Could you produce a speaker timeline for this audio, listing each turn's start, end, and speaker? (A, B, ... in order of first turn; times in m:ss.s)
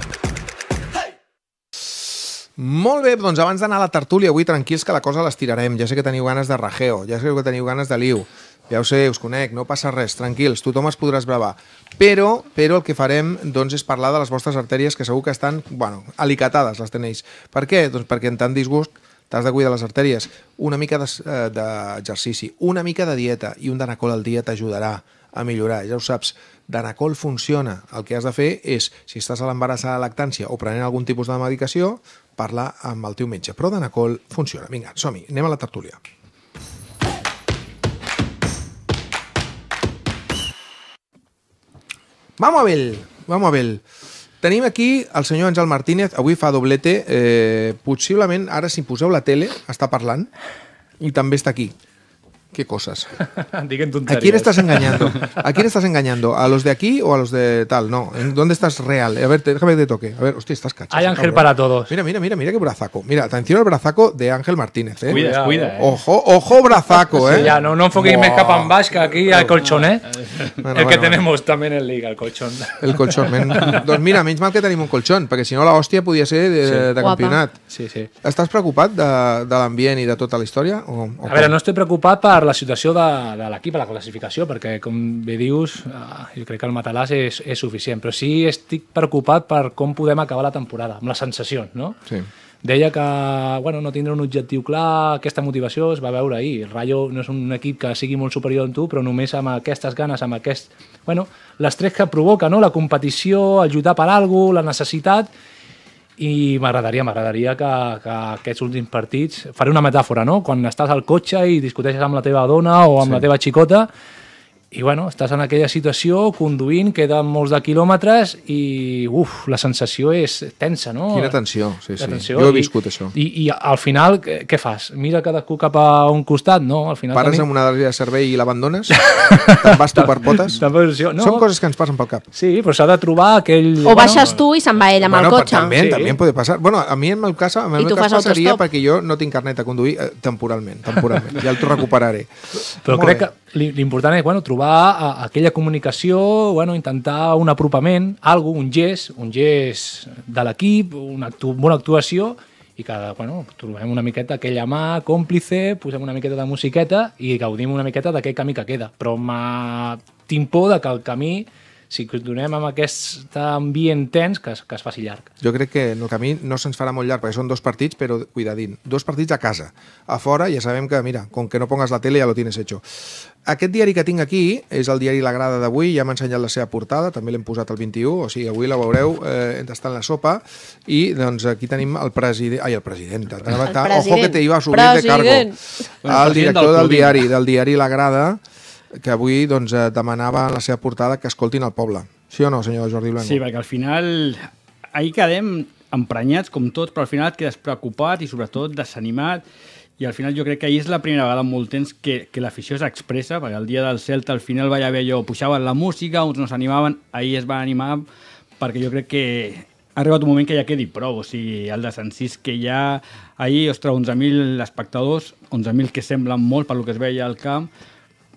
0:02.0-0:36.0 A
0:42.4-0:43.8 A
0:44.4-0:50.3 A
0:51.0-0:51.7 A
0:52.5-0:53.1 A
0:53.2-0:55.3 B
0:54.0-1:09.7 A
1:00.9-1:01.9 B
1:05.1-1:05.9 C
1:05.1-1:05.8 B
1:07.1-1:10.0 B
1:07.3-1:07.6 C
1:09.6-1:09.9 C
1:10.6-1:11.2 A
1:10.7-1:13.8 B
1:12.8-1:17.6 A
1:17.0-1:17.4 D
1:17.7-1:18.1 B
1:18.2-1:21.6 A
1:21.2-1:32.0 B
1:32.6-1:45.3 B
1:46.2-1:53.9 B
1:54.7-2:01.4 B
2:01.1-2:03.1 A
2:02.0-2:07.5 B
2:07.1-2:10.6 A
2:09.1-2:11.4 B
2:11.1-2:12.2 A
2:12.3-2:14.3 B
2:13.8-2:15.8 D
2:15.0-2:23.3 A
2:15.8-2:16.2 B
2:17.8-2:18.6 D
2:22.9-2:45.3 B
2:45.4-3:13.4 A
3:03.6-3:05.6 D
3:06.0-3:07.3 C
3:13.2-3:19.4 C
3:20.0-3:28.0 C
3:28.6-3:37.7 C